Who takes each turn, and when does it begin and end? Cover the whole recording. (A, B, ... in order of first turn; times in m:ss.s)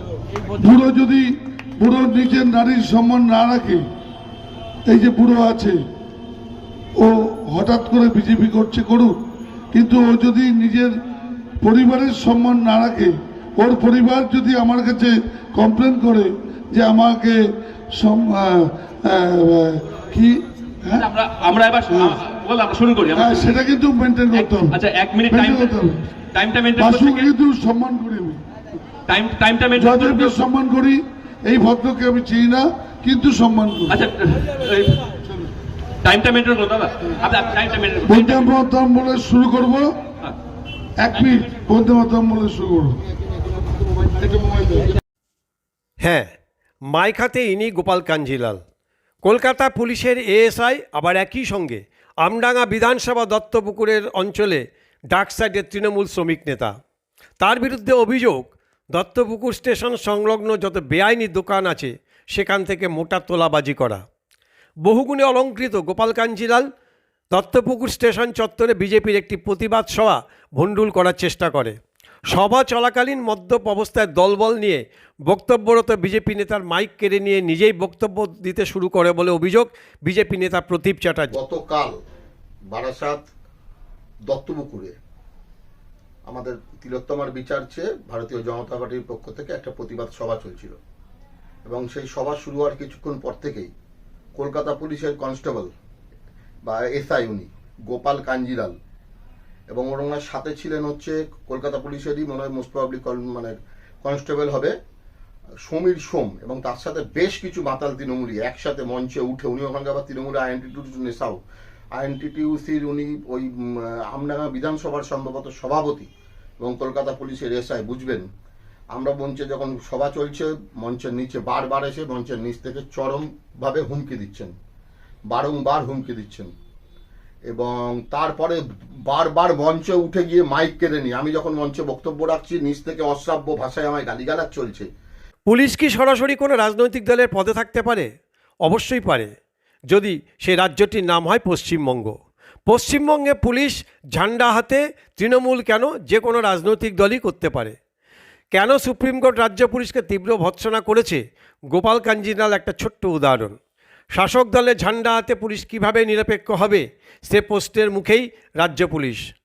0:00.6-0:01.3 A
0:01.8-0:03.8 A
0:04.9-0:05.8 A
0:07.0-0:09.1 A
0:09.7-0:10.9 A
0:11.6-0:17.4 A
0:17.9-0:21.0 A
0:20.9-0:23.5 B
0:21.9-0:22.2 A
0:23.2-0:24.8 A
0:24.3-0:25.8 B
0:25.3-0:26.1 A
0:26.3-0:27.3 B
0:26.8-0:28.4 A
0:29.1-0:30.4 B
0:29.8-0:34.0 A
0:33.9-0:35.0 B
0:36.0-0:38.5 B
0:38.0-0:39.9 A
0:41.0-0:43.0 A
0:46.0-0:46.3 C
0:46.9-0:48.6 C
0:49.2-0:56.7 C
0:57.4-1:04.0 C
1:04.8-1:06.7 C
1:07.3-1:11.8 C
1:12.3-1:21.3 C
1:21.3-1:21.9 D
1:22.7-1:23.2 D
1:24.3-1:24.9 D
1:26.3-1:30.8 D
1:31.7-1:33.7 D
1:34.4-1:35.7 D
1:36.6-1:38.7 D
1:39.7-1:44.7 D
1:45.7-1:51.4 D
1:52.0-1:56.1 D
1:56.6-1:58.3 D
1:58.9-2:04.5 D
2:05.3-2:06.5 D
2:07.5-2:14.9 D
2:15.5-2:18.1 C
2:18.6-2:19.3 C
2:19.9-2:22.2 C
2:22.7-2:27.8 C
2:28.5-2:31.2 C
2:31.7-2:33.5 C
2:34.2-2:39.2 C